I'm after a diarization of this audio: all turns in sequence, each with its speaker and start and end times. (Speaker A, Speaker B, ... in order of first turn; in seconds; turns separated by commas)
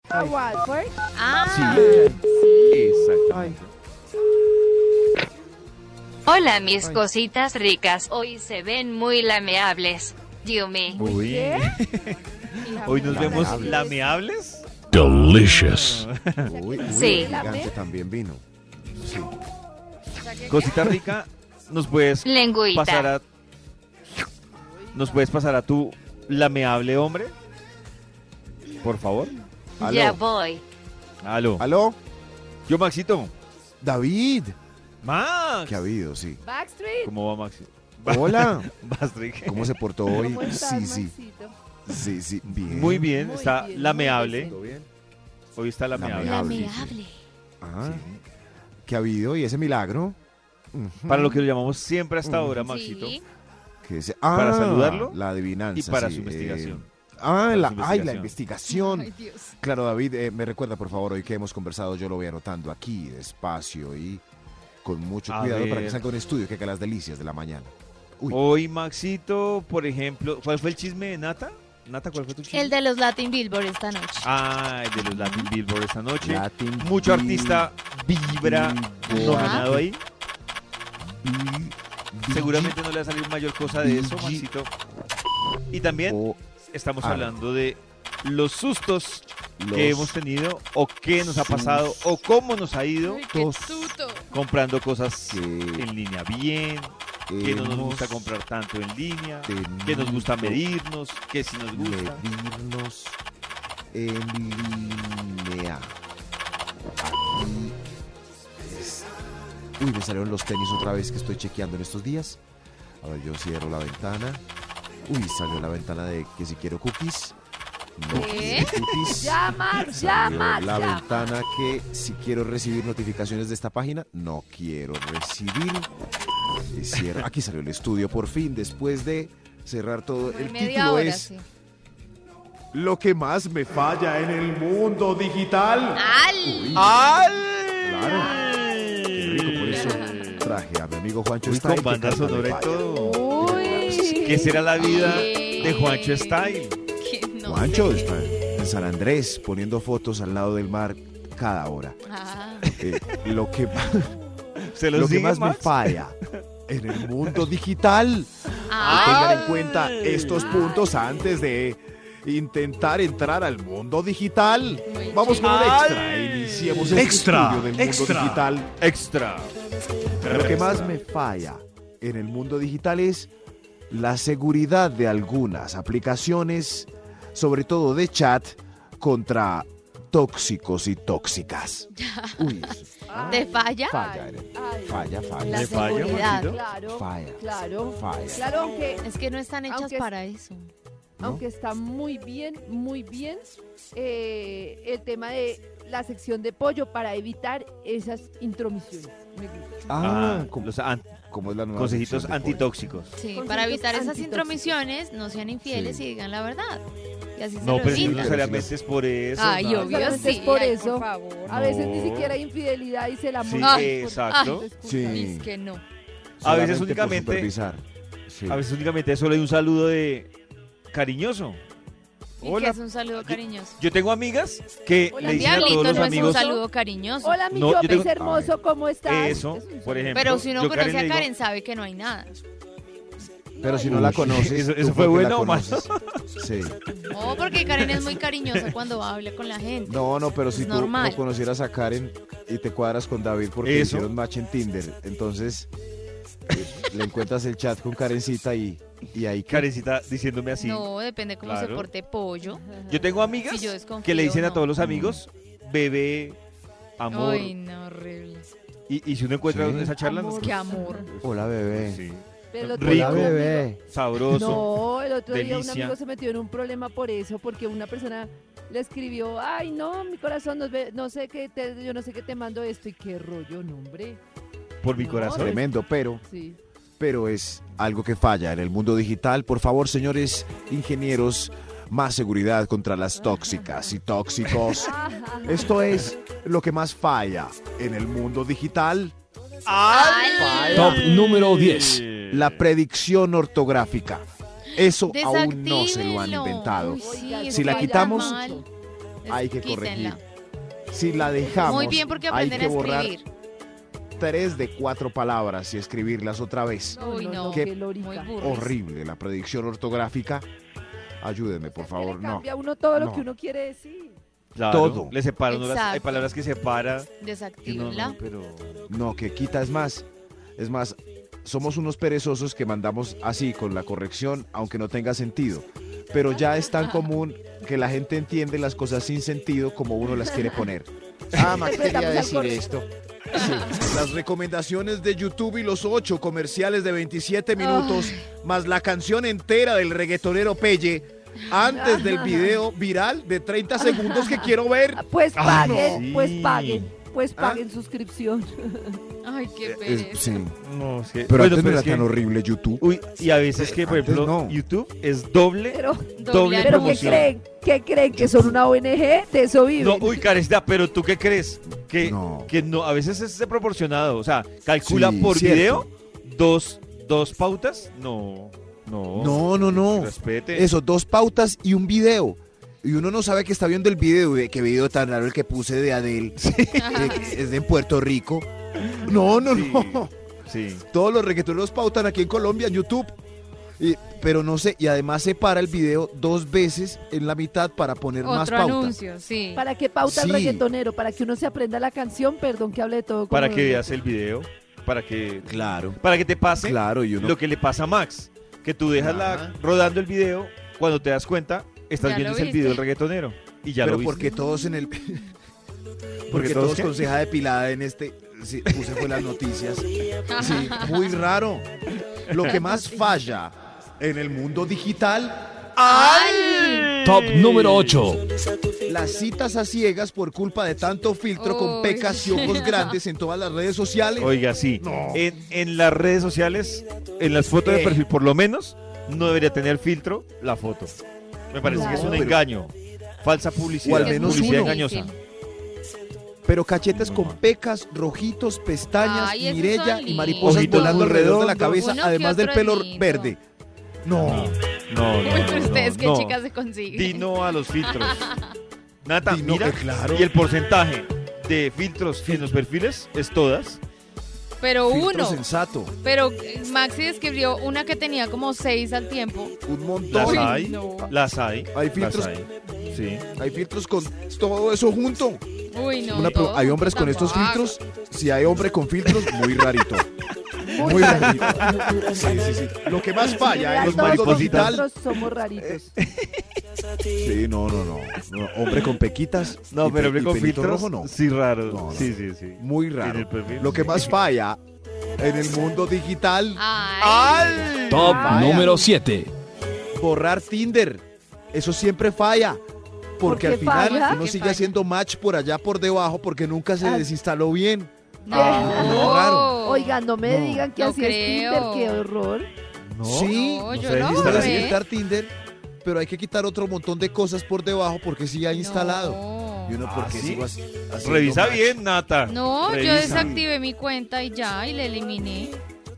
Speaker A: 0.1-0.9, Speaker B: 1.1-3.2, Speaker C: 1.5-2.2, Speaker D: 1.7-2.0, Speaker D: 2.7-3.7, Speaker C: 3.3-3.6, Speaker E: 6.2-11.0, Speaker C: 6.8-7.0, Speaker A: 10.9-11.7, Speaker D: 10.9-16.5, Speaker A: 12.6-14.0, Speaker B: 12.8-13.5, Speaker C: 13.1-13.8, Speaker F: 14.9-16.1, Speaker C: 16.4-18.4, Speaker A: 16.4-17.7, Speaker E: 16.9-17.3, Speaker C: 19.0-19.3, Speaker B: 20.2-21.0, Speaker D: 20.5-23.2, Speaker E: 22.2-23.1, Speaker A: 24.5-25.3, Speaker D: 24.9-27.3, Speaker D: 28.8-29.3, Speaker C: 29.8-30.2, Speaker E: 29.8-30.6, Speaker D: 31.2-31.6, Speaker C: 31.6-32.0, Speaker D: 32.7-33.3, Speaker C: 33.8-34.5, Speaker D: 35.0-35.9, Speaker C: 35.6-36.4, Speaker A: 36.4-37.1, Speaker D: 37.0-40.5, Speaker C: 38.0-38.7, Speaker C: 39.4-41.1, Speaker A: 40.1-41.5, Speaker C: 41.9-43.1, Speaker D: 42.4-44.5, Speaker A: 43.1-44.6, Speaker C: 44.4-44.9, Speaker D: 45.5-46.9, Speaker C: 45.9-47.0, Speaker B: 46.1-47.2, Speaker C: 47.6-48.0, Speaker D: 47.8-48.2, Speaker C: 48.9-50.2, Speaker C: 50.7-51.4, Speaker D: 51.1-53.2, Speaker C: 52.2-52.6, Speaker B: 52.6-53.2, Speaker C: 53.8-64.2, Speaker D: 54.3-55.2, Speaker D: 55.7-56.8, Speaker D: 57.5-58.3, Speaker B: 58.6-59.5, Speaker C: 64.8-68.4, Speaker D: 65.3-66.0, Speaker D: 68.3-72.7, Speaker B: 72.5-74.3, Speaker D: 74.2-80.0, Speaker B: 75.0-75.5, Speaker C: 76.2-77.7, Speaker C: 78.3-79.9, Speaker B: 79.1-79.7, Speaker C: 81.0-82.8, Speaker D: 82.3-84.7, Speaker C: 83.6-84.5, Speaker D: 85.7-86.2, Speaker C: 86.0-86.4, Speaker D: 86.7-93.2, Speaker C: 87.0-87.3, Speaker C: 89.6-90.2, Speaker C: 91.2-92.2, Speaker B: 93.0-94.3, Speaker C: 93.3-94.0, Speaker D: 94.3-102.2, Speaker C: 95.3-95.9, Speaker C: 97.3-98.3, Speaker C: 99.5-100.6, Speaker C: 101.7-103.2, Speaker C: 103.9-105.9, Speaker C: 107.0-107.8, Speaker C: 108.6-109.1, Speaker C: 109.8-112.4, Speaker C: 113.0-114.4, Speaker C: 115.1-117.3, Speaker C: 118.0-125.9, Speaker B: 118.1-118.7, Speaker A: 118.1-121.3, Speaker D: 118.2-118.8, Speaker C: 126.7-131.3, Speaker B: 130.2-131.4, Speaker C: 132.7-136.9, Speaker B: 136.0-136.8, Speaker D: 136.7-140.5, Speaker C: 137.8-138.4, Speaker A: 138.1-138.3, Speaker C: 139.1-144.3, Speaker B: 139.7-140.4, Speaker D: 141.4-146.8, Speaker A: 142.9-144.6, Speaker B: 144.8-148.1, Speaker C: 147.4-152.0, Speaker B: 152.1-152.7, Speaker D: 152.7-153.2, Speaker C: 152.8-154.2, Speaker D: 154.6-156.4, Speaker C: 154.9-156.2, Speaker C: 156.7-168.7, Speaker D: 157.0-157.5, Speaker B: 158.7-159.5, Speaker D: 158.7-160.8, Speaker B: 164.8-165.6, Speaker D: 165.4-167.0, Speaker F: 166.9-168.5, Speaker D: 168.8-169.5, Speaker D: 170.2-170.9, Speaker C: 170.2-173.3, Speaker C: 173.9-186.2, Speaker B: 181.9-182.7, Speaker A: 183.1-189.1, Speaker B: 183.3-184.0, Speaker D: 185.4-186.6, Speaker B: 185.5-186.6, Speaker C: 186.8-187.4, Speaker C: 187.9-188.4, Speaker B: 189.0-190.7, Speaker A: 189.7-190.1, Speaker C: 191.2-191.4, Speaker A: 191.2-199.9, Speaker C: 199.9-200.7, Speaker D: 200.0-203.2, Speaker C: 201.3-202.7, Speaker B: 203.2-206.8, Speaker A: 203.3-204.8, Speaker C: 205.6-206.1, Speaker B: 207.3-208.5, Speaker D: 207.6-210.4, Speaker C: 207.8-208.7, Speaker B: 209.4-211.6, Speaker A: 209.8-215.3, Speaker D: 211.4-212.4, Speaker D: 213.4-214.7, Speaker B: 213.6-215.8, Speaker C: 214.8-215.5, Speaker C: 216.4-218.6, Speaker D: 216.4-217.5, Speaker D: 218.5-220.3, Speaker D: 220.9-221.6, Speaker D: 222.4-226.4, Speaker B: 222.4-223.8, Speaker A: 225.1-226.6, Speaker B: 225.2-227.4, Speaker A: 227.2-230.4, Speaker D: 227.5-228.1, Speaker C: 227.9-228.6, Speaker D: 229.0-231.3, Speaker B: 230.1-232.4, Speaker A: 233.5-234.2, Speaker C: 233.6-236.8, Speaker D: 233.8-236.2, Speaker B: 237.1-241.2, Speaker D: 237.1-238.7, Speaker C: 239.8-245.7, Speaker D: 243.6-244.1, Speaker C: 246.5-249.7, Speaker D: 249.5-250.9, Speaker B: 250.6-252.8, Speaker D: 251.4-251.9, Speaker A: 252.5-253.0, Speaker D: 252.9-256.4, Speaker B: 253.4-254.7, Speaker C: 254.8-255.2, Speaker D: 257.0-257.5, Speaker B: 257.1-258.4, Speaker D: 258.9-264.7, Speaker C: 259.4-259.9, Speaker A: 260.0-261.1, Speaker B: 260.2-261.1, Speaker C: 261.2-262.0, Speaker A: 262.5-263.7, Speaker C: 262.8-263.8, Speaker A: 264.3-274.2, Speaker D: 265.3-265.9, Speaker D: 274.8-275.6, Speaker A: 275.0-275.6, Speaker C: 275.2-276.2, Speaker A: 276.2-276.6, Speaker C: 277.0-284.9, Speaker A: 284.8-285.7, Speaker C: 285.4-289.1, Speaker D: 289.6-292.6, Speaker B: 289.9-291.0, Speaker C: 290.4-291.0, Speaker F: 290.7-292.0, Speaker C: 292.3-298.3, Speaker B: 294.8-298.6, Speaker A: 297.0-298.6, Speaker B: 299.2-300.2, Speaker C: 299.3-300.2, Speaker C: 300.9-303.1, Speaker A: 301.2-302.2, Speaker B: 301.6-303.3, Speaker C: 304.2-307.0, Speaker A: 306.9-308.3, Speaker B: 307.0-308.7, Speaker C: 308.4-310.4, Speaker C: 311.2-313.3, Speaker A: 311.6-314.2, Speaker D: 314.5-318.9, Speaker C: 314.7-315.1, Speaker B: 315.5-316.3, Speaker B: 317.2-318.2, Speaker C: 318.9-320.1, Speaker C: 320.6-345.0, Speaker D: 331.3-332.0, Speaker A: 331.4-332.7, Speaker B: 333.4-333.7, Speaker B: 337.6-338.2, Speaker A: 341.6-342.6, Speaker A: 344.9-349.0, Speaker D: 345.4-346.9, Speaker C: 347.4-347.6, Speaker B: 349.2-350.4, Speaker C: 349.6-350.6, Speaker D: 350.6-352.1, Speaker C: 351.3-352.8, Speaker D: 352.8-357.3, Speaker C: 353.6-354.6, Speaker A: 355.7-356.1, Speaker B: 356.2-357.3, Speaker A: 356.6-360.2, Speaker C: 358.1-358.6, Speaker D: 359.8-370.7, Speaker C: 362.0-362.5, Speaker C: 364.8-365.9, Speaker C: 369.1-376.4, Speaker D: 376.4-377.1, Speaker B: 376.8-377.4, Speaker C: 376.9-378.5, Speaker D: 378.9-380.8, Speaker C: 379.0-380.1, Speaker C: 380.9-383.1, Speaker C: 383.8-388.9, Speaker B: 388.2-389.6, Speaker A: 389.5-393.9, Speaker C: 390.0-390.6, Speaker D: 393.3-404.3, Speaker C: 395.4-396.0, Speaker C: 396.6-397.4, Speaker C: 398.9-399.6, Speaker B: 402.0-402.8, Speaker C: 403.8-405.3, Speaker D: 406.3-406.9, Speaker C: 406.3-411.7, Speaker D: 408.7-409.1, Speaker B: 410.3-411.1, Speaker C: 412.3-415.6, Speaker D: 412.3-412.5, Speaker B: 412.4-413.3, Speaker D: 415.7-418.1, Speaker B: 415.9-416.9, Speaker F: 417.0-418.2, Speaker C: 418.8-425.2, Speaker B: 421.4-423.0, Speaker D: 424.2-430.9, Speaker C: 427.6-428.0, Speaker D: 431.5-435.1, Speaker C: 431.6-432.4, Speaker A: 431.6-432.3, Speaker C: 433.8-434.8, Speaker B: 434.0-435.1, Speaker C: 436.4-443.4, Speaker D: 436.9-437.4, Speaker B: 439.0-440.7, Speaker D: 440.4-441.9, Speaker B: 441.8-443.4, Speaker C: 444.0-444.6, Speaker D: 444.2-448.3, Speaker B: 445.2-448.5, Speaker D: 449.0-453.8, Speaker C: 449.2-450.3, Speaker C: 452.2-452.6, Speaker B: 454.6-455.4, Speaker C: 454.9-455.9, Speaker B: 456.0-459.6, Speaker C: 459.6-460.6, Speaker D: 460.1-463.3, Speaker B: 460.2-461.1, Speaker C: 461.7-462.3, Speaker C: 463.3-465.4, Speaker B: 465.7-467.8, Speaker C: 466.1-470.1, Speaker D: 469.1-469.5, Speaker A: 470.6-472.4, Speaker D: 470.8-472.4, Speaker C: 470.8-474.8, Speaker D: 473.2-474.8, Speaker A: 473.4-475.9, Speaker D: 475.6-476.4, Speaker C: 477.2-484.6, Speaker D: 479.7-484.1, Speaker C: 485.2-486.6, Speaker B: 486.6-487.8, Speaker D: 487.0-488.2, Speaker F: 487.9-489.3, Speaker A: 488.0-488.9, Speaker C: 488.0-488.8, Speaker C: 489.9-492.6, Speaker C: 493.2-499.6, Speaker A: 493.2-494.2, Speaker B: 493.6-494.7, Speaker A: 496.8-497.1, Speaker B: 498.2-500.0, Speaker A: 498.3-502.5, Speaker D: 498.3-499.5, Speaker C: 500.2-500.6, Speaker B: 500.8-502.0, Speaker D: 502.9-504.8, Speaker C: 503.0-505.3, Speaker B: 503.3-504.8, Speaker C: 505.8-511.8, Speaker B: 508.5-509.8, Speaker D: 509.8-513.5, Speaker B: 512.3-515.6, Speaker C: 512.8-513.4